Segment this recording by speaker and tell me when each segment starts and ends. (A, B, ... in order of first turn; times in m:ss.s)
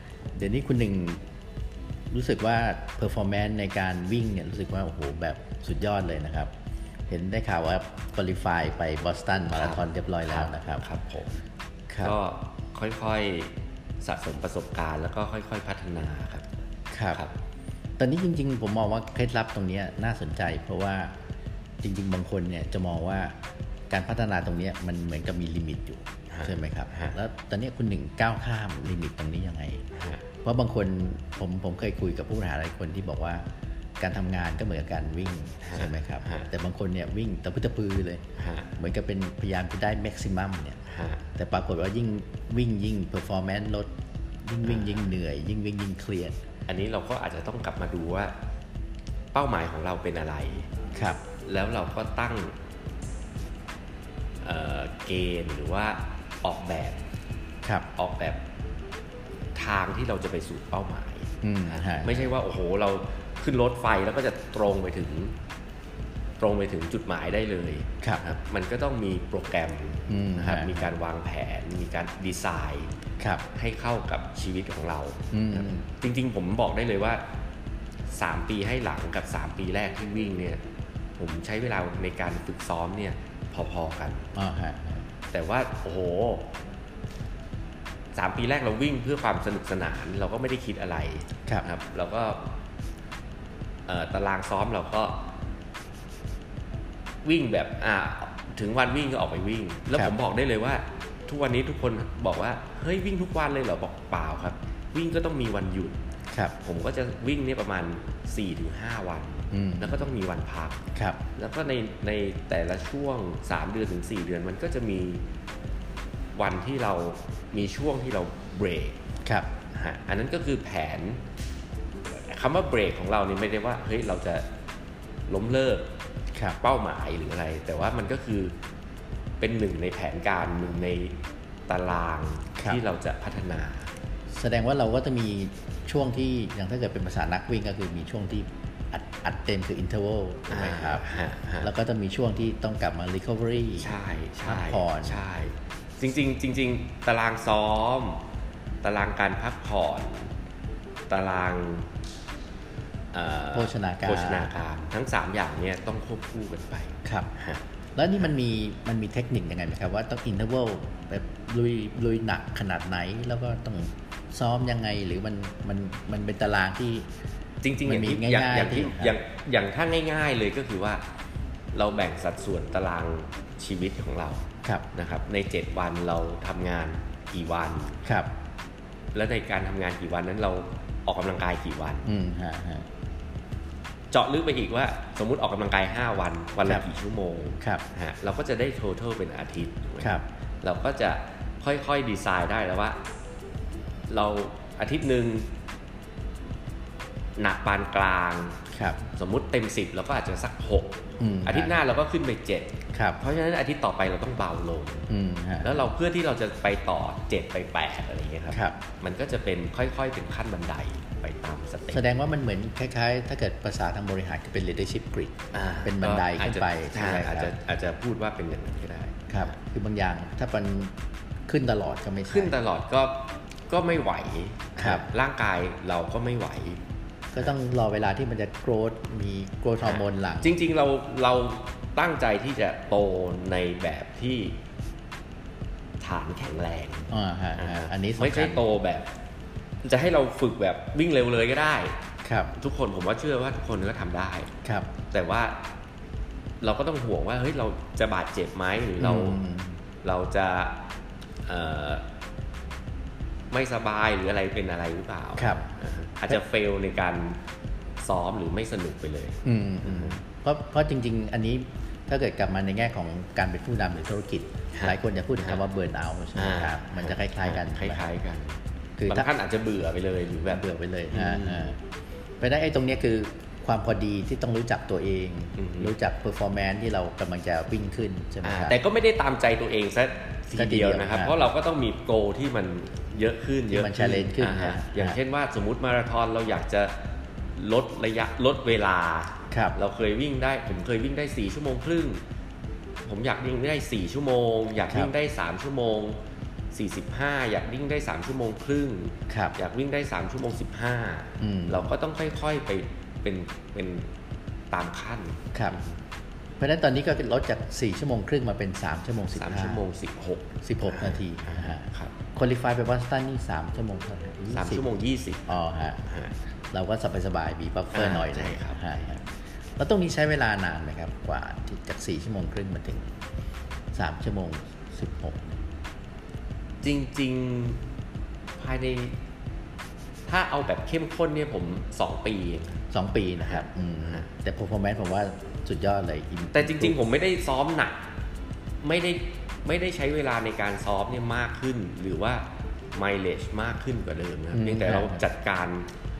0:00.3-0:01.2 A
0:02.1-0:06.5 A
0:07.1-0:10.8 A
0:09.5-0:11.4 B
0:11.9-0:12.1 A
0:12.0-0:16.4 B
0:16.9-0:17.2 A
0:18.0-0:21.1 A
0:21.8-0:23.3 A
0:23.9-0:29.8 A
0:26.3-0:27.1 B
0:29.9-0:30.2 B
0:30.4-0:33.4 A
0:34.0-0:38.2 A
0:35.6-0:36.5 B
0:38.4-0:38.7 B
0:38.8-0:40.8 A
0:40.9-0:41.2 B
0:41.4-0:43.9 A
0:44.4-0:46.3 A
0:44.6-0:45.0 B
0:46.7-0:48.3 B
0:49.3-0:50.7 B
0:50.9-0:51.2 A
0:51.4-0:52.5 B
0:54.4-0:57.0 B
0:58.0-0:58.4 B
0:59.5-1:05.3 B
1:01.4-1:02.3 A
1:06.4-1:12.9 B
1:10.1-1:10.9 A
1:13.2-1:13.4 A
1:13.5-1:17.2 B
1:15.3-1:15.9 A
1:18.1-1:20.6 B
1:21.2-1:24.3 B
1:24.3-1:25.1 A
1:25.3-1:26.5 B
1:28.1-1:32.5 B
1:33.9-1:35.2 B
1:37.2-1:46.0 B
1:46.6-1:50.8 B
1:49.5-1:50.1 A
1:51.3-1:55.2 B
1:56.4-1:59.0 B
1:59.7-2:01.2 B
2:02.1-2:04.4 B
2:05.3-2:05.9 B
2:06.6-2:08.5 B
2:09.4-2:13.9 B
2:14.3-2:21.0 A
2:20.5-2:21.7 B
2:21.6-2:25.2 A
2:23.8-2:28.2 B
2:28.8-2:30.3 B
2:31.1-2:31.9 B
2:33.1-2:37.6 B
2:33.5-2:34.5 A
2:37.0-2:37.3 A
2:38.0-2:47.1 A
2:47.6-2:51.0 B
2:47.8-2:49.1 A
2:51.7-2:58.0 B
2:59.1-3:02.1 B
3:02.0-3:02.8 A
3:04.1-3:13.0 B
3:14.1-3:15.5 B
3:17.4-3:18.6 B
3:18.7-3:19.0 A
3:19.1-3:25.1 B
3:21.2-3:21.8 A
3:22.9-3:23.2 A
3:25.1-3:25.8 A
3:25.6-3:32.1 B
3:28.5-3:28.8 A
3:31.9-3:37.5 A
3:35.5-3:39.5 B
3:39.3-3:40.9 A
3:41.5-3:42.5 A
3:42.3-3:46.8 B
3:44.8-3:45.0 A
3:47.3-3:50.6 A
3:49.8-3:54.6 B
3:56.0-3:59.1 B
3:57.1-3:58.6 A
3:59.8-4:02.0 B
4:02.2-4:02.5 A
4:02.6-4:04.5 B
4:04.6-4:04.9 A
4:05.1-4:05.6 B
4:06.6-4:09.4 B
4:09.0-4:09.8 A
4:10.0-4:10.8 B
4:11.4-4:12.0 B
4:13.5-4:17.4 B
4:15.4-4:15.7 A
4:18.0-4:20.2 B
4:19.4-4:28.1 A
4:24.7-4:25.6 B
4:26.4-4:31.7 B
4:29.0-4:29.3 A
4:30.4-4:31.8 A
4:32.4-4:38.8 A
4:35.6-4:35.9 B
4:38.4-4:46.9 B
4:40.6-4:41.5 A
4:43.7-4:45.2 A
4:47.5-4:52.2 B
4:49.5-4:49.8 A
4:53.0-4:56.2 B
4:54.8-4:55.1 A
4:56.7-5:04.1 B
4:59.3-4:59.6 A
5:01.4-5:01.9 A
5:04.7-5:06.0 B
5:05.5-5:05.8 A
5:06.6-5:09.8 A
5:09.3-5:12.1 B
5:10.6-5:14.8 A
5:14.5-5:16.3 B
5:15.5-5:16.0 A
5:16.7-5:23.1 A
5:17.9-5:18.8 B
5:23.9-5:25.6 A
5:26.8-5:27.8 B
5:28.6-5:29.2 B
5:30.3-5:32.8 B
5:32.9-5:37.0 A
5:33.4-5:34.2 B
5:36.5-5:38.0 B
5:38.8-5:45.9 B
5:44.5-5:45.2 A